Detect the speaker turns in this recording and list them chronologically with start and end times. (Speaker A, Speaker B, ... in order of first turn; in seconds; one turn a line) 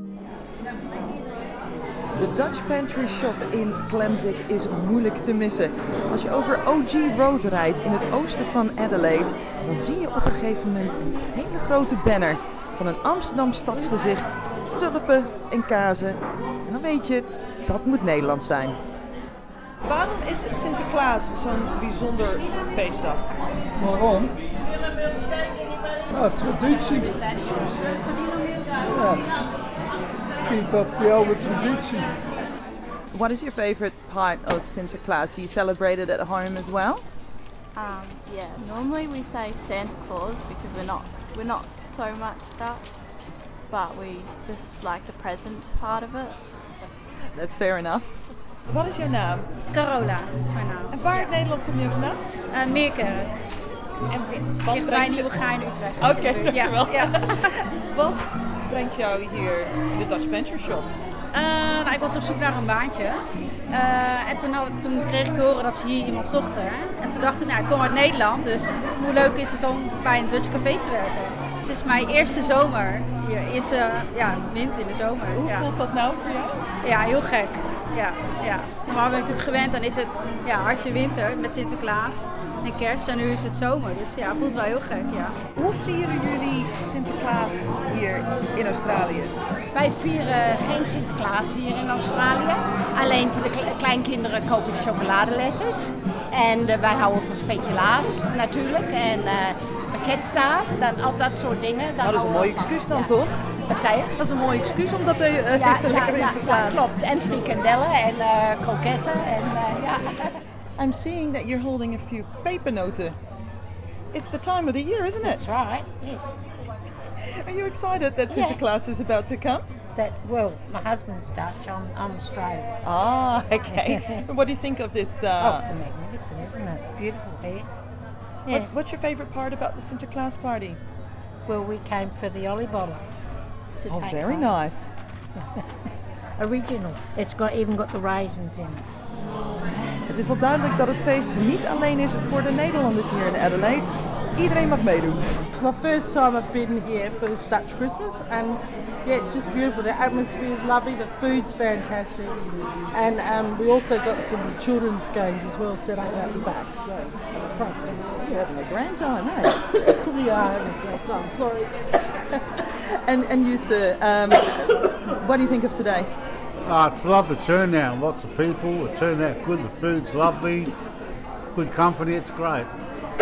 Speaker A: 2.1-18.8
Speaker A: 19.8-23.3
Speaker B: 23.8-24.4
Speaker B: 26.1-27.5
Speaker B: 28.8-29.4
Speaker B: 30.4-32.1
Speaker A: 33.1-37.0
Speaker C: 37.7-42.9
Speaker C: 43.7-46.5
Speaker A: 47.3-48.1
Speaker A: 48.7-49.5
Speaker D: 49.7-51.3
Speaker A: 50.9-52.2
Speaker D: 52.5-53.3
Speaker A: 54.1-55.3
Speaker D: 54.4-57.5
Speaker A: 56.0-60.9
Speaker D: 61.3-75.7
Speaker A: 75.3-76.6
Speaker D: 76.8-85.4
Speaker A: 85.5-89.4
Speaker E: 89.7-103.1
Speaker A: 102.0-103.4
Speaker E: 103.7-104.1
Speaker A: 104.2-106.8
Speaker E: 105.5-110.4
Speaker A: 110.8-113.2
Speaker A: 114.1-115.4
Speaker F: 115.2-116.4
Speaker A: 117.4-119.7
Speaker F: 118.3-118.6
Speaker F: 119.9-122.7
Speaker A: 122.8-125.7
Speaker F: 123.7-124.2
Speaker F: 125.4-127.7
Speaker A: 128.5-130.8
Speaker F: 131.5-133.1
Speaker F: 133.8-134.6
Speaker A: 133.9-134.9
Speaker F: 136.4-138.9
Speaker A: 140.1-145.5
Speaker G: 145.5-152.4
Speaker G: 152.9-158.0
Speaker A: 158.2-159.6
Speaker G: 159.7-161.7
Speaker A: 162.5-166.1
Speaker H: 166.6-170.7
Speaker H: 171.5-172.7